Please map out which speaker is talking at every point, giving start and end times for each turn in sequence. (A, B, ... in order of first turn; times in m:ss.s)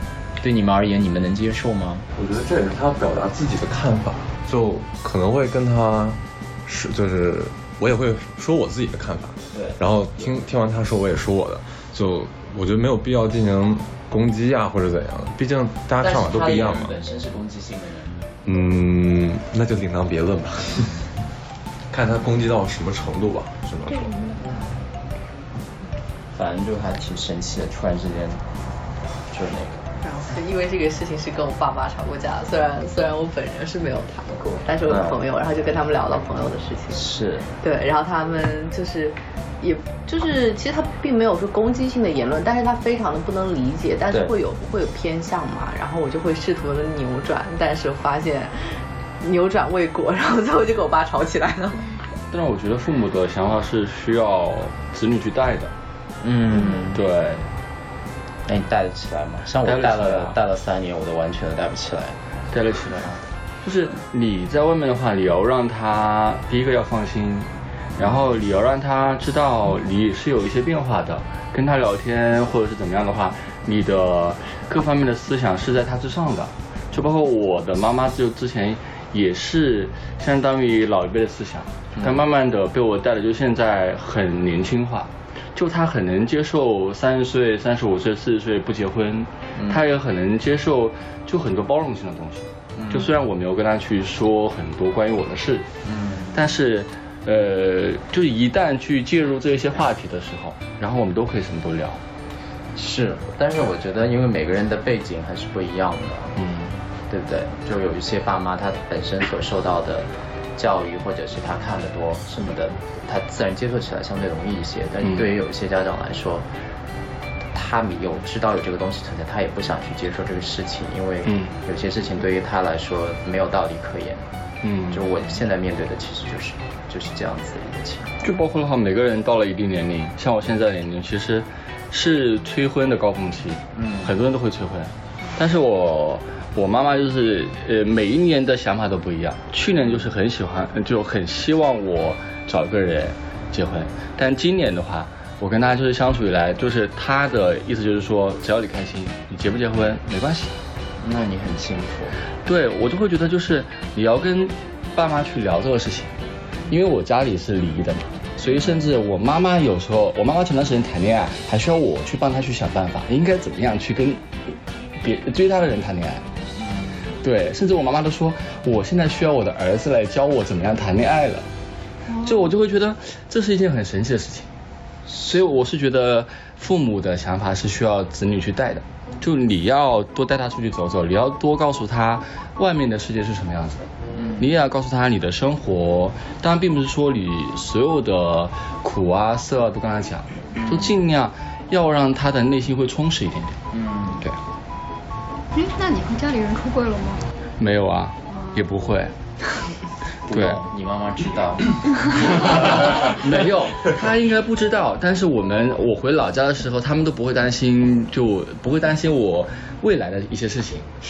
0:00.4-0:02.1 A
0:02.1-0:17.0 B
0:09.5-0:09.8 A
0:16.0-0:18.2 A
0:18.4-0:21.0 B
0:21.9-0:24.2 B
0:26.3-0:28.4 A
0:29.3-0:29.9 A
0:30.0-0:37.0 C
0:34.8-0:35.2 A
0:36.9-0:37.5 A
0:37.6-0:48.5 C
0:49.2-0:51.9 C
0:52.3-0:55.7 D
0:56.2-0:57.0 A
0:56.9-0:57.5 D
0:58.5-1:02.2 A
0:59.6-1:00.4 D
1:02.5-1:03.1 D
1:02.9-1:03.2 A
1:03.6-1:35.7 D
1:22.0-1:22.2 A
1:29.6-1:29.8 A
1:32.8-1:33.1 A
1:35.8-1:36.4 A
1:36.3-1:42.0 D
1:42.8-1:46.4 A
1:46.4-1:46.8 D
1:47.1-1:56.5 A
1:57.5-2:04.3 A
2:01.3-2:01.5 D
2:04.6-2:05.0 D
2:04.9-2:08.2 A
2:08.2-2:30.6 D
2:13.8-2:14.1 A
2:31.0-2:32.2 A
2:32.4-2:36.1 D
2:36.7-2:46.2 D
2:47.2-2:51.5 D
2:52.1-2:52.4 E
2:52.2-2:54.5 D
2:55.1-2:55.4 A
2:55.2-3:13.6 D
3:13.8-3:14.2 A
3:15.5-3:17.2 E
3:17.6-3:19.1 D
3:18.3-3:18.6 E
3:20.2-3:23.2 A
3:20.3-3:20.6 D
3:22.4-3:30.9 D